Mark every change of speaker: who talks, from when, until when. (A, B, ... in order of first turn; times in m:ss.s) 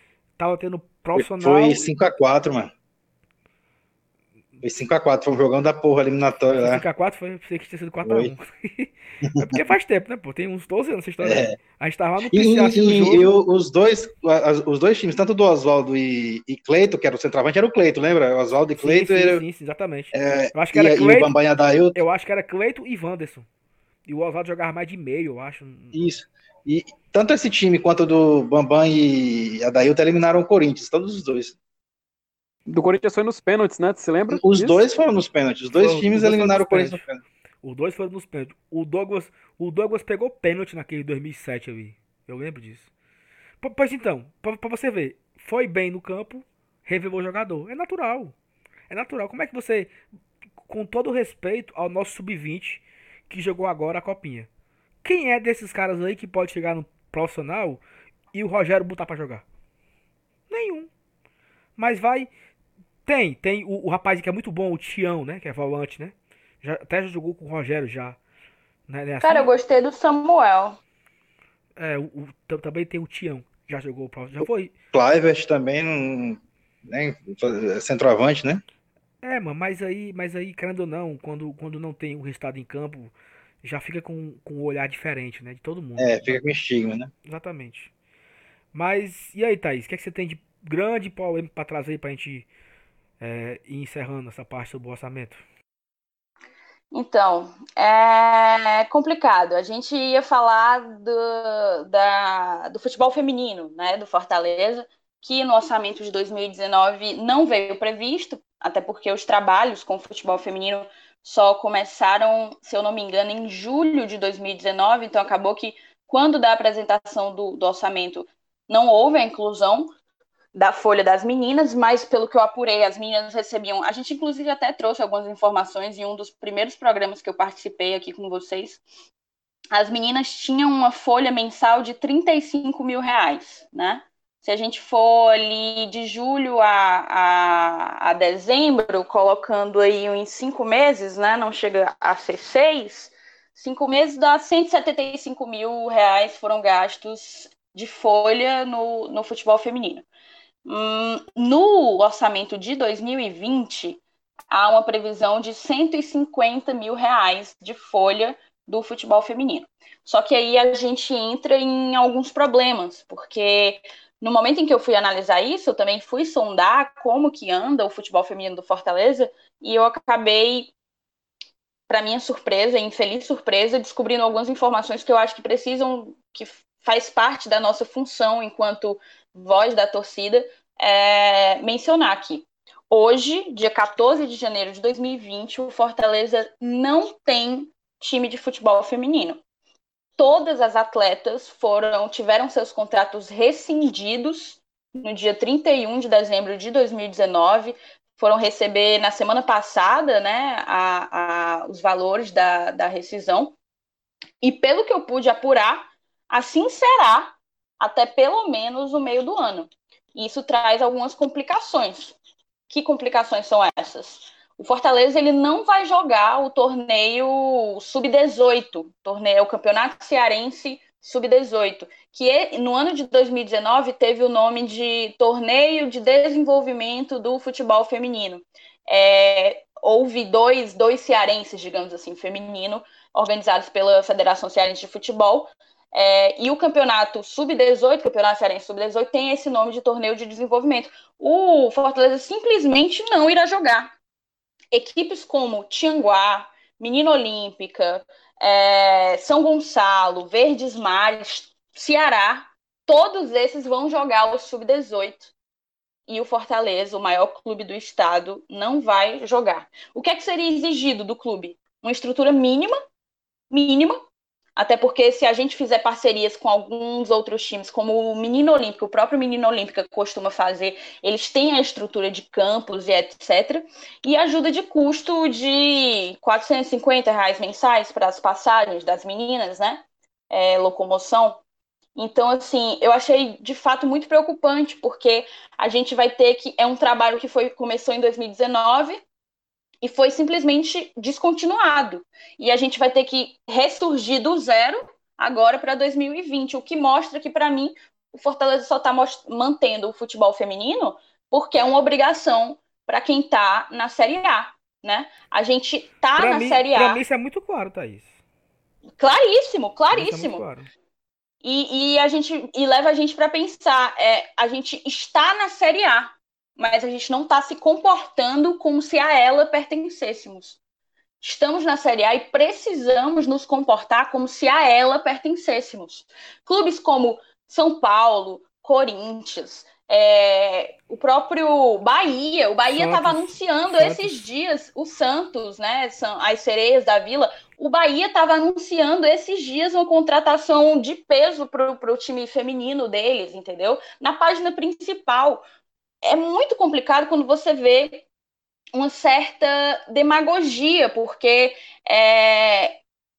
0:00.4-0:01.9 A
0:01.2-0:02.7 B
0:04.6-0:06.8 B
0:06.6-0:13.3 A
0:08.0-0:08.3 B
0:09.4-0:09.6 B
0:11.2-0:11.5 B
0:12.2-0:19.4 B
0:18.8-0:21.3 A
0:20.1-0:22.0 B
0:21.9-0:23.4 A
0:24.0-0:26.0 A
0:25.9-0:31.6 B
0:32.7-0:34.8 C
0:34.3-0:37.2 B
0:35.7-0:37.0 A
0:37.6-0:42.9 A
0:43.6-0:48.3 A
0:48.9-0:49.9 A
0:50.6-0:54.5 A
0:55.0-0:57.8 A
0:58.3-0:59.4 A
1:00.5-1:00.9 A
1:01.8-1:02.3 A
1:03.0-1:08.2 A
1:08.9-1:09.5 A
1:09.2-1:10.8 D
1:11.8-1:14.7 A
1:14.9-1:18.6 B
1:19.2-1:23.1 A
1:23.6-1:26.4 A
1:26.0-1:27.1 B
1:27.2-1:27.9 A
1:28.7-1:32.5 A
1:33.2-1:35.4 A
1:36.9-1:59.9 D
2:00.5-2:08.8 D
2:09.7-2:30.0 D
2:30.6-2:50.7 D
2:51.9-3:09.4 D
3:10.2-3:23.5 D
3:24.4-3:32.2 D
3:32.7-4:03.9 D
4:04.7-4:15.3 D
4:16.1-4:22.7 D
4:23.5-4:24.0 D
4:24.6-4:41.4 D
4:42.0-4:49.0 D
4:49.8-5:07.0 D
5:06.2-5:08.1 A
5:09.0-5:10.4 D
5:09.9-5:10.7 A
5:11.4-5:20.6 D
5:21.2-5:45.4 D
5:32.7-5:34.2 A
5:46.0-5:48.0 D
5:48.7-5:52.8 D